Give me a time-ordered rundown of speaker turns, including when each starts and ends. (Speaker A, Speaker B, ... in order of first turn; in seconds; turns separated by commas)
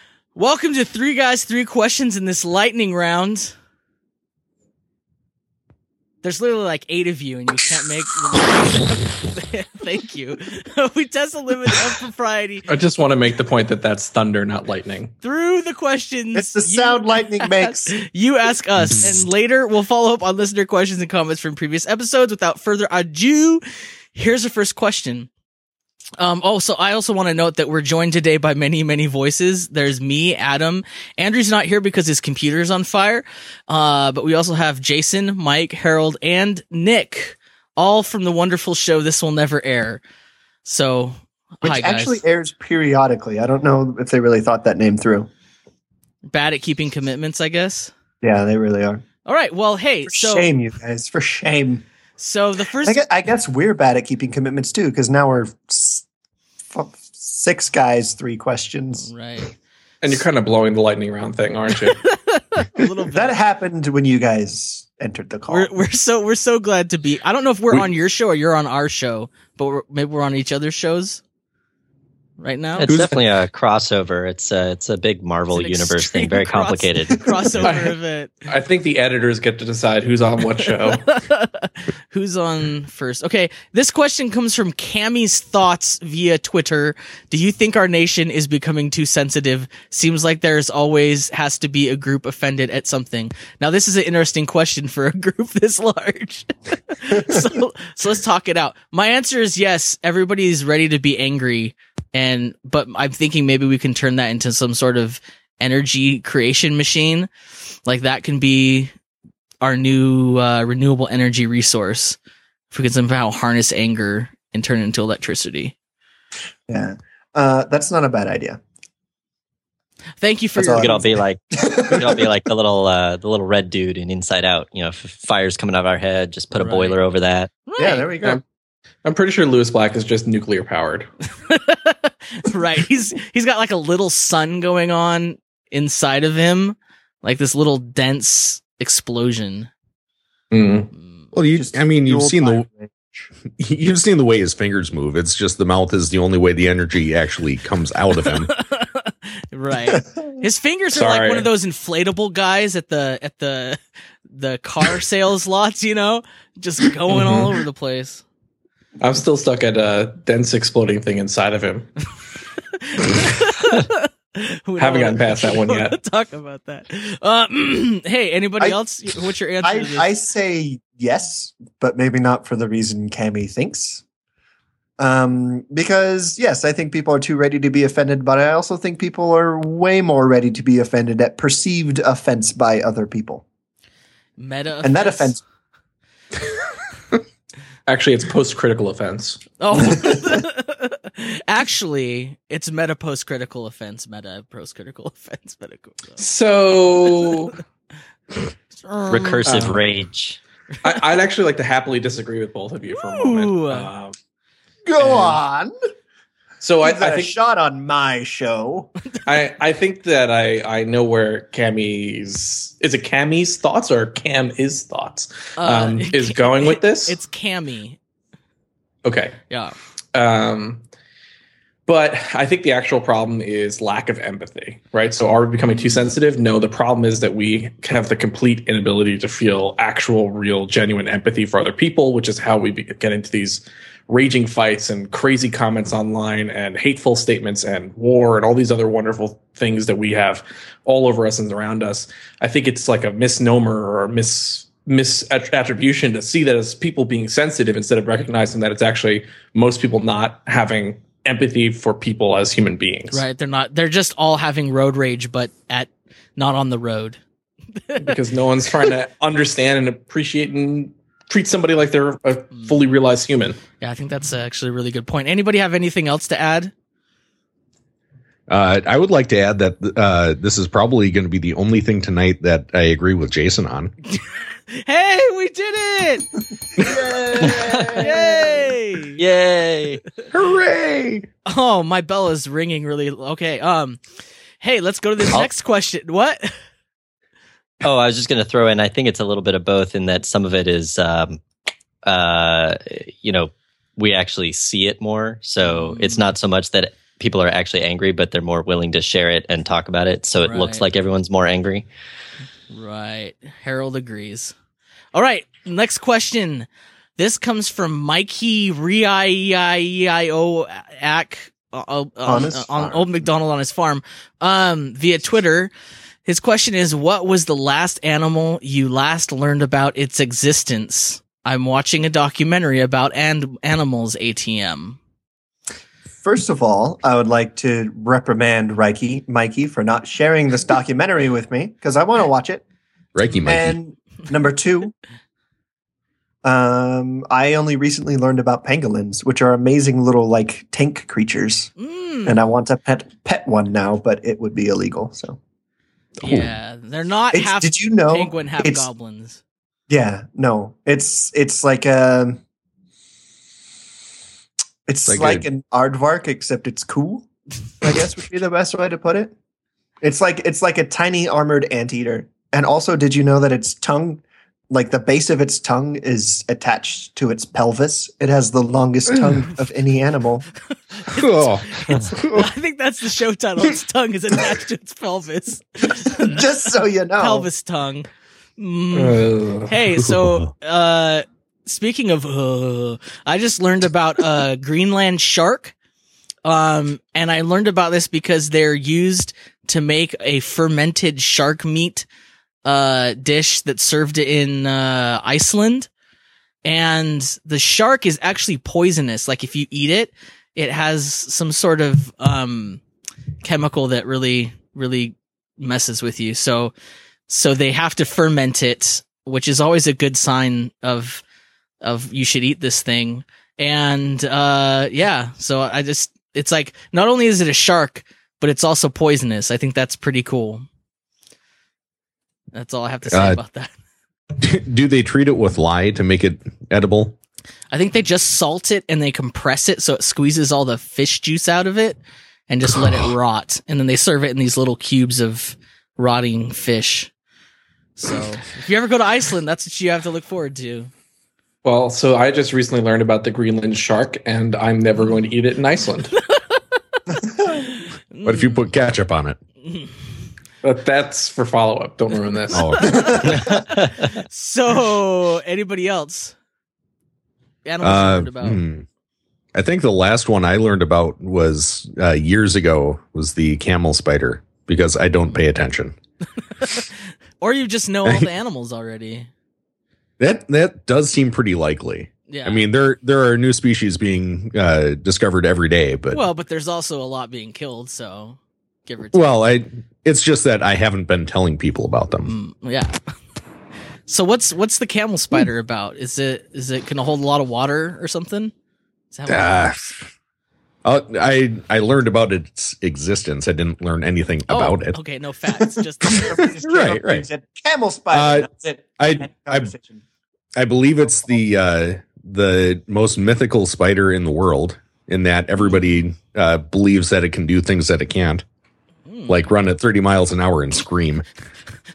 Speaker A: 0.3-3.5, Speaker A: 6.2-12.7, Speaker B: 12.7-15.1, Speaker A: 15.2-23.6, Speaker C: 16.3-17.9, Speaker A: 24.1-25.3, Speaker A: 26.2-40.0, Speaker A: 40.6-42.2, Speaker C: 41.6-45.3, Speaker A: 46.2-47.9, Speaker C: 48.2-49.0, Speaker A: 49.2-50.5, Speaker C: 50.1-51.8, Speaker A: 52.2-53.0, Speaker C: 52.8-56.0, Speaker C: 56.7-59.1, Speaker A: 59.0-59.5, Speaker B: 60.0-62.0, Speaker A: 62.0-63.4, Speaker C: 63.1-65.7, Speaker A: 65.5-71.2, Speaker A: 72.4-72.9, Speaker D: 72.8-77.2, Speaker E: 72.9-73.1, Speaker A: 75.5-78.4, Speaker B: 77.6-81.0, Speaker A: 80.8-107.3, Speaker A: 107.8-108.9, Speaker A: 109.6-112.2, Speaker A: 112.7-115.7, Speaker C: 116.7-118.6, Speaker A: 120.2-121.0, Speaker C: 120.5-122.3, Speaker D: 120.7-127.5, Speaker A: 126.5-127.0, Speaker A: 127.7-128.1, Speaker C: 127.8-128.4, Speaker B: 129.0-131.1, Speaker A: 131.4-139.7, Speaker B: 140.5-140.9, Speaker A: 140.9-141.2, Speaker E: 141.3-142.7, Speaker C: 141.5-143.2, Speaker E: 143.6-148.5, Speaker A: 148.2-153.8, Speaker B: 150.9-151.5, Speaker A: 154.3-158.2, Speaker B: 157.1-157.5, Speaker B: 159.0-161.9, Speaker A: 162.8-170.1, Speaker B: 164.8-165.9, Speaker C: 169.6-174.0, Speaker C: 175.0-183.4, Speaker A: 184.4-185.3, Speaker C: 184.8-185.4, Speaker B: 187.9-189.4, Speaker A: 189.6-196.2, Speaker B: 196.2-197.6, Speaker A: 198.8-199.7, Speaker D: 199.1-200.4, Speaker B: 199.4-199.8, Speaker B: 200.8-204.1, Speaker A: 202.9-203.9, Speaker C: 204.8-205.7, Speaker B: 205.0-205.4, Speaker B: 206.6-207.3, Speaker C: 206.8-208.9, Speaker B: 209.2-217.2, Speaker A: 215.6-218.0, Speaker B: 219.0-219.4, Speaker A: 219.5-219.8, Speaker B: 220.1-220.8, Speaker B: 221.9-253.2, Speaker A: 253.1-257.2, Speaker A: 257.9-258.2, Speaker B: 258.0-263.6, Speaker A: 262.5-262.8, Speaker A: 263.8-266.7, Speaker E: 268.5-273.9, Speaker A: 274.1-276.3, Speaker C: 276.7-278.7, Speaker E: 276.8-277.5, Speaker D: 277.4-278.1, Speaker A: 277.9-279.2, Speaker D: 279.2-280.0, Speaker E: 280.3-281.3, Speaker A: 281.4-284.0, Speaker A: 284.6-286.5, Speaker D: 287.8-291.4, Speaker D: 292.0-301.8, Speaker A: 295.6-296.2, Speaker A: 300.4-300.8, Speaker A: 302.7-304.5, Speaker A: 305.1-315.7, Speaker C: 312.2-313.3, Speaker A: 316.2-325.0, Speaker C: 326.2-332.6, Speaker E: 333.1-333.8, Speaker C: 333.4-334.9, Speaker C: 336.4-341.7, Speaker A: 341.8-342.4, Speaker C: 342.2-345.4, Speaker A: 346.2-349.4, Speaker C: 347.3-348.9, Speaker C: 349.9-352.4, Speaker C: 354.9-357.3, Speaker E: 355.1-355.5, Speaker C: 357.8-359.3, Speaker C: 360.0-370.5, Speaker A: 371.0-376.4, Speaker E: 371.1-372.5, Speaker C: 376.1-377.5, Speaker A: 377.1-378.1, Speaker A: 378.6-385.7, Speaker B: 378.9-379.8, Speaker E: 379.9-380.5, Speaker A: 386.4-392.1, Speaker A: 392.6-395.9, Speaker A: 396.6-402.8, Speaker A: 403.4-406.7, Speaker A: 407.3-411.2, Speaker A: 411.8-420.6, Speaker A: 422.5-423.7, Speaker E: 423.1-423.4, Speaker E: 424.4-427.1, Speaker A: 427.7-437.1, Speaker E: 432.7-433.1, Speaker A: 438.0-440.9, Speaker B: 441.6-446.1, Speaker A: 446.3-446.6, Speaker A: 447.5-448.7, Speaker E: 448.2-449.4, Speaker B: 450.6-453.0, Speaker E: 452.5-453.6, Speaker A: 452.6-456.3, Speaker C: 452.9-453.2, Speaker A: 457.6-458.6, Speaker E: 457.8-458.8, Speaker E: 459.5-465.9, Speaker A: 466.6-469.3, Speaker E: 470.2-476.2, Speaker A: 472.3-472.7, Speaker A: 476.1-479.4, Speaker E: 479.1-482.3, Speaker A: 482.2-482.9, Speaker A: 484.1-488.5, Speaker A: 489.1-489.9, Speaker E: 489.3-490.0, Speaker E: 490.8-495.0, Speaker A: 494.5-496.5, Speaker C: 496.0-500.0, Speaker E: 496.4-497.2, Speaker E: 498.1-499.7, Speaker E: 500.6-508.4, Speaker A: 509.1-509.5, Speaker E: 509.3-511.2